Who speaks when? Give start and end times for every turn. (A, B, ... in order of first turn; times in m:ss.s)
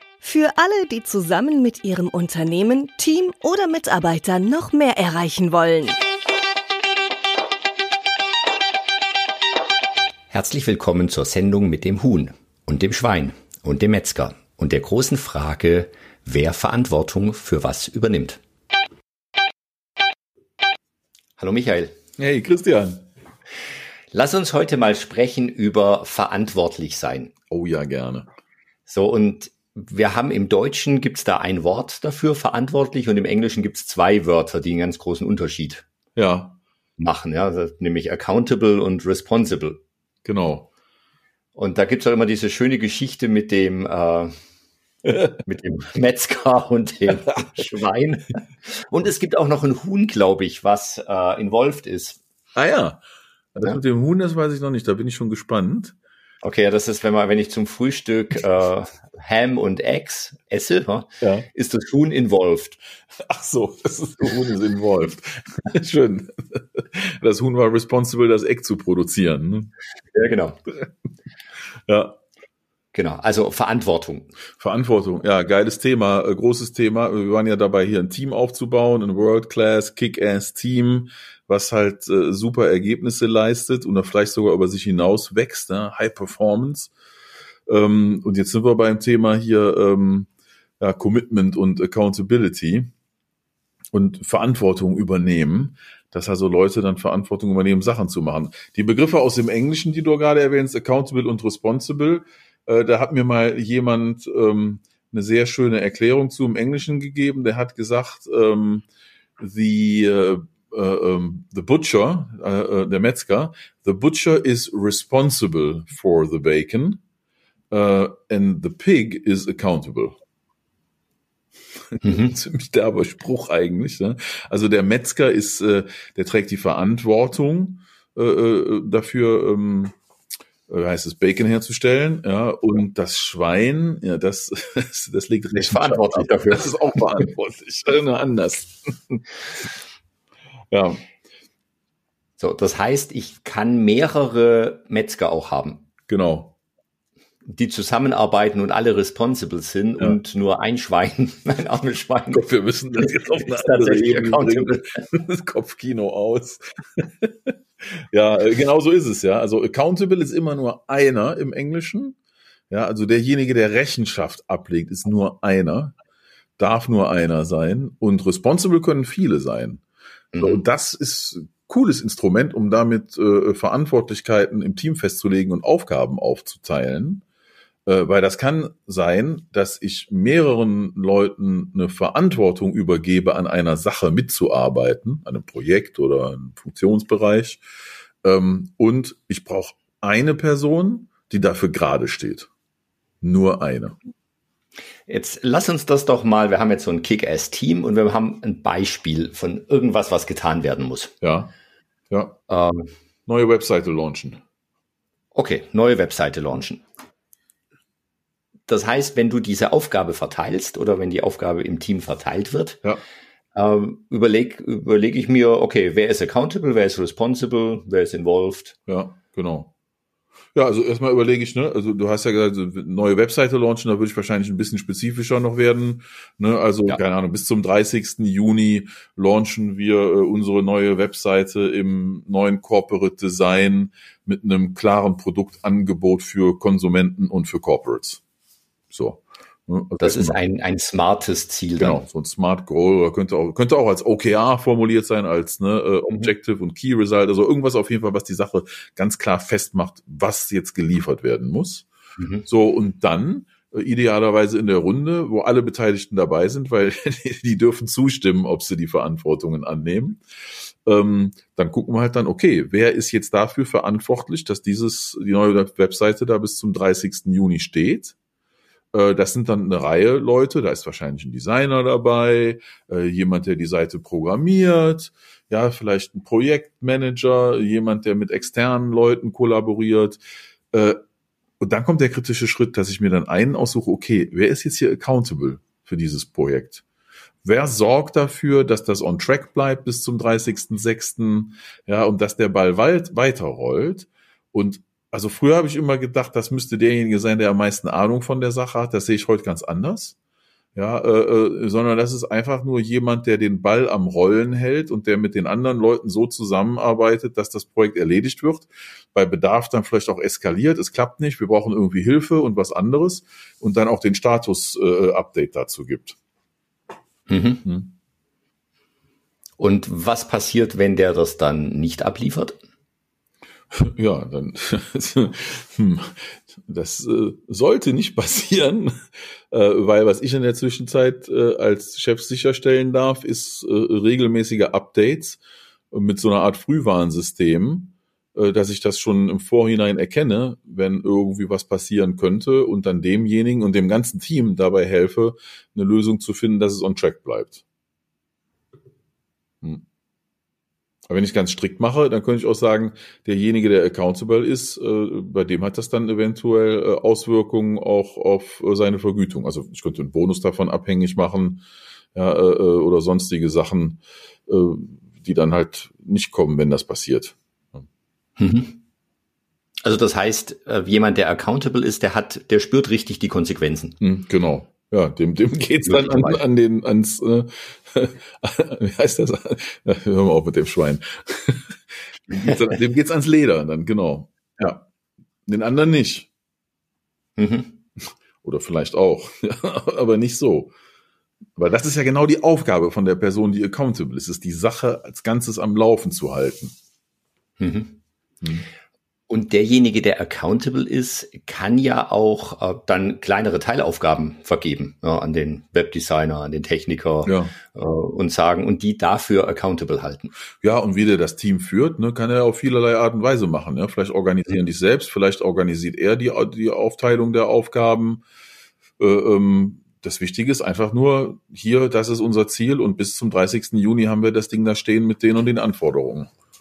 0:00.2-0:06.0 A
0:10.3-0:18.4 B
0:21.4-0:22.0 B
0:22.2-0:23.0 C
0:24.1-0:27.3 B
0:27.5-0:28.3 C
0:28.9-0:35.8 B
0:36.2-0:36.6 C
0:37.0-0:39.8 B
0:40.2-0:40.7 C
0:41.6-0:44.3 B
0:45.4-0:52.2 B
0:52.6-0:53.0 C
0:53.5-0:55.9 C
0:56.4-1:02.8 B
1:01.2-1:01.5 C
1:03.3-1:09.7 C
1:10.1-1:10.6 B
1:11.9-1:12.2 C
1:12.9-1:14.3 B
1:14.6-1:26.9 C
1:27.7-1:32.9 C
1:33.9-1:48.8 C
1:49.4-1:57.0 C
1:57.7-2:00.2 C
2:01.9-2:10.0 C
2:02.0-2:02.3 B
2:10.7-2:19.2 C
2:15.6-2:16.7 B
2:20.7-2:21.0 C
2:22.4-2:25.8 B
2:26.1-2:26.5 C
2:27.4-2:32.4 B
2:32.3-2:42.2 C
2:33.0-2:34.9 B
2:42.7-2:46.0 C
2:46.6-2:49.8 C
2:50.3-2:50.6 B
2:50.4-2:57.2 C
2:57.8-3:07.6 C
3:08.2-3:12.5 C
3:13.2-3:14.0 C
3:15.1-3:21.1 B
3:21.2-3:21.5 C
3:22.1-3:22.4 C
3:22.5-3:22.9 B
3:23.3-3:24.4 C
3:25.3-3:26.8 B
3:28.7-3:32.8 B
3:33.5-3:38.8 B
3:38.9-3:39.7 C
3:40.5-3:58.2 C
3:58.9-4:00.4 C
4:00.0-4:02.0 B
4:01.8-4:11.9 C
4:12.2-4:12.4 B
4:12.4-4:20.2 C
4:20.8-4:28.2 C
4:28.9-4:40.2 C
4:40.7-4:41.0 C
4:41.6-4:46.8 C
4:47.4-5:00.2 C
5:00.7-5:16.2 C
5:17.3-5:17.6 B
5:17.6-5:17.9 C
5:19.6-5:22.6 B
5:23.7-5:28.9 C
5:29.5-5:47.6 C
5:51.1-6:07.8 C
6:08.4-6:08.8 B
6:09.8-6:14.0 B
6:14.0-6:21.7 C
6:15.8-6:16.4 B
6:22.3-6:24.8 C
6:22.3-6:22.6 B
6:25.4-6:26.3 C
6:27.4-6:27.8 B
6:28.4-6:30.7 C
6:31.6-6:36.7 C
6:37.6-6:38.0 B
6:38.4-6:38.7 C
6:39.3-6:50.3 B
6:47.2-6:47.5 C
6:50.6-6:58.2 C
6:59.0-7:06.3 C